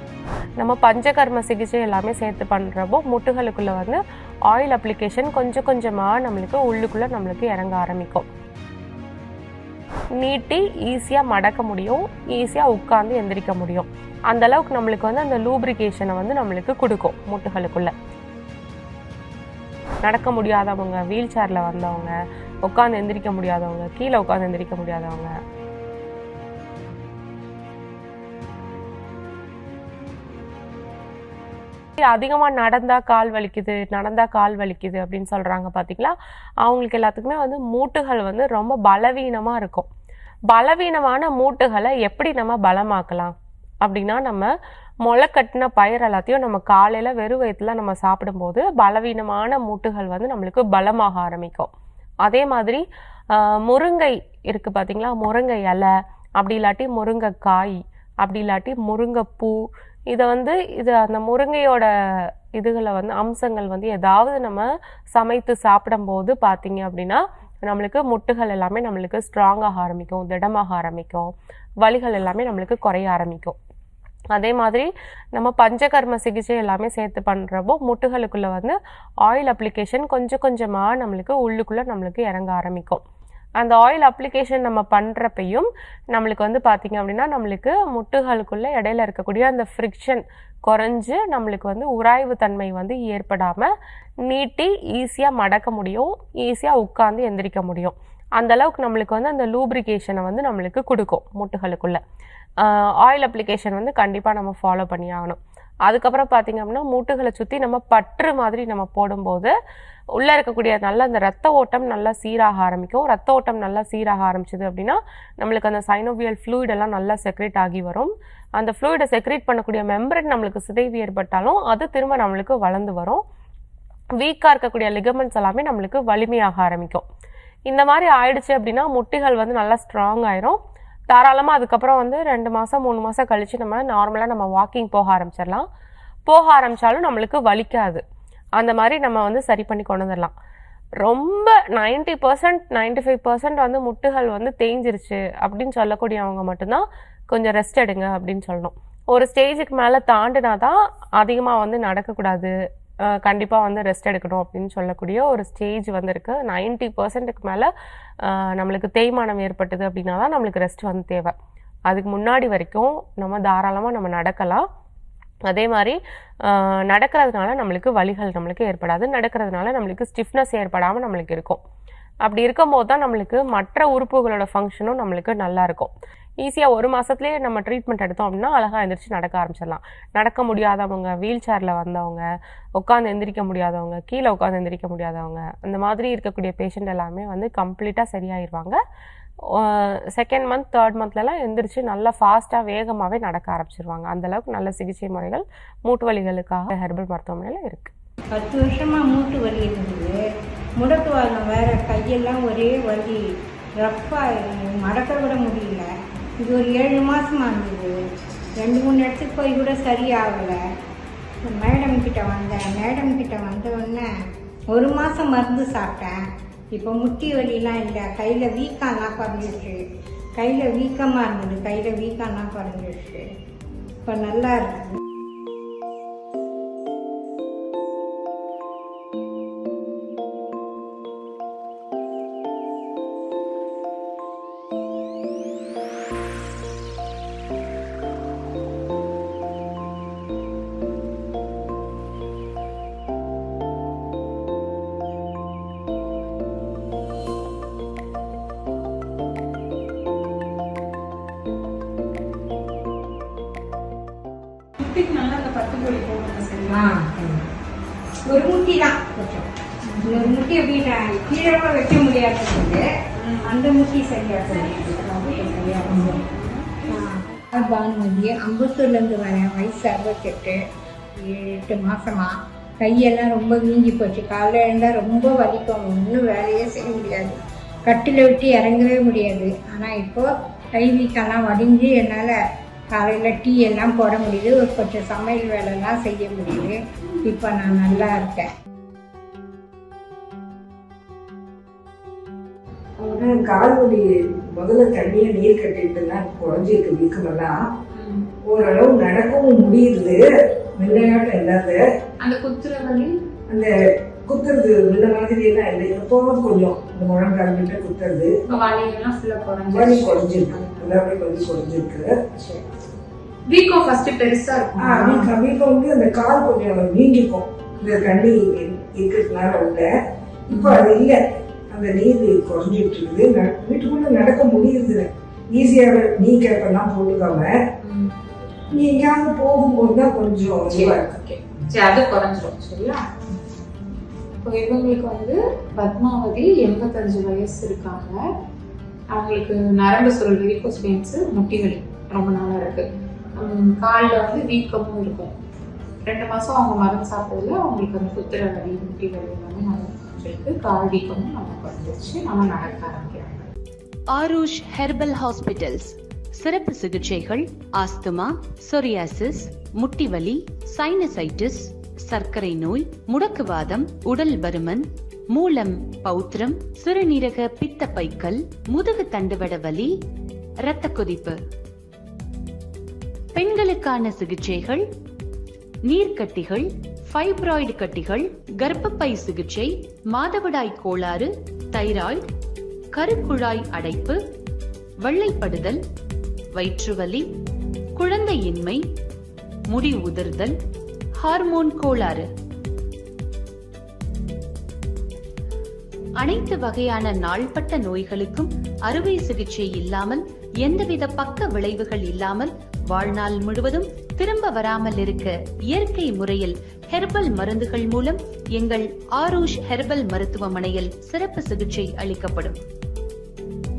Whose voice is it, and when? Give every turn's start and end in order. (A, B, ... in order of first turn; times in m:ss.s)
0:00.6-0:08.2 A
0:10.2-0:17.9 A
0:20.0-0:22.1 A
0:22.6-0:25.3 A
0:32.1-0:39.9 A
0:40.5-0:44.5 A
0:45.0-0:51.7 A
0:52.2-0:52.8 A
0:53.3-0:59.6 A
1:00.1-1:01.8 A
1:02.6-1:13.6 A
1:14.3-1:23.0 A
1:23.6-1:33.7 A
1:34.3-1:42.0 A
1:42.6-1:49.5 A
1:50.2-2:03.2 A
2:04.2-2:07.0 A
2:07.7-2:10.6 A
2:11.1-2:15.6 A
2:16.3-2:18.0 A
2:18.6-2:20.3 A
2:21.0-2:32.5 A
2:33.2-2:37.7 A
2:38.3-2:41.3 A
2:41.9-2:44.6 A
2:45.5-2:46.0 A
2:46.5-2:51.6 A
2:52.2-3:02.2 A
3:02.8-3:08.8 A
3:09.5-3:17.9 A
3:18.3-3:20.2 B
3:20.8-3:23.3 B
3:23.8-3:25.9 B
3:26.4-3:27.9 B
3:28.6-3:30.6 B
3:31.4-3:34.0 B
3:34.7-3:36.2 B
3:36.7-3:39.8 B
3:40.4-3:43.3 B
3:44.0-3:45.0 B
4:14.8-4:16.9 C
4:16.7-4:17.4 B
4:18.3-4:22.8 B
4:23.4-4:26.2 B
4:26.3-4:26.8 C
4:26.9-4:30.6 B
4:31.2-4:42.4 B
4:42.9-4:48.5 B
4:53.0-4:53.4 C
4:53.2-4:57.6 D
4:57.9-4:58.3 C
4:58.5-5:00.2 D
5:00.8-5:01.8 D
5:02.2-5:03.1 C
5:04.3-5:08.3 D
5:08.5-5:11.0 C
5:09.7-5:12.2 D
5:13.5-5:15.3 C
5:14.8-5:19.9 D
5:20.5-5:21.2 D
5:20.5-5:20.8 C
5:21.7-5:27.5 D
5:27.8-5:28.1 C
5:28.7-5:31.2 D
5:30.7-5:33.1 C
5:34.4-5:38.2 C
5:39.1-5:42.8 C
5:43.4-5:45.3 C
5:46.0-5:53.5 C
5:54.1-6:09.9 E
6:10.6-6:11.4 E
6:13.3-6:14.8 E
6:15.8-6:22.2 E
6:22.9-6:24.2 E
6:25.0-6:25.8 E
6:26.5-6:27.2 E
6:28.0-6:28.8 E
6:29.7-6:30.5 E
6:31.2-6:32.3 E
6:36.2-6:52.6 E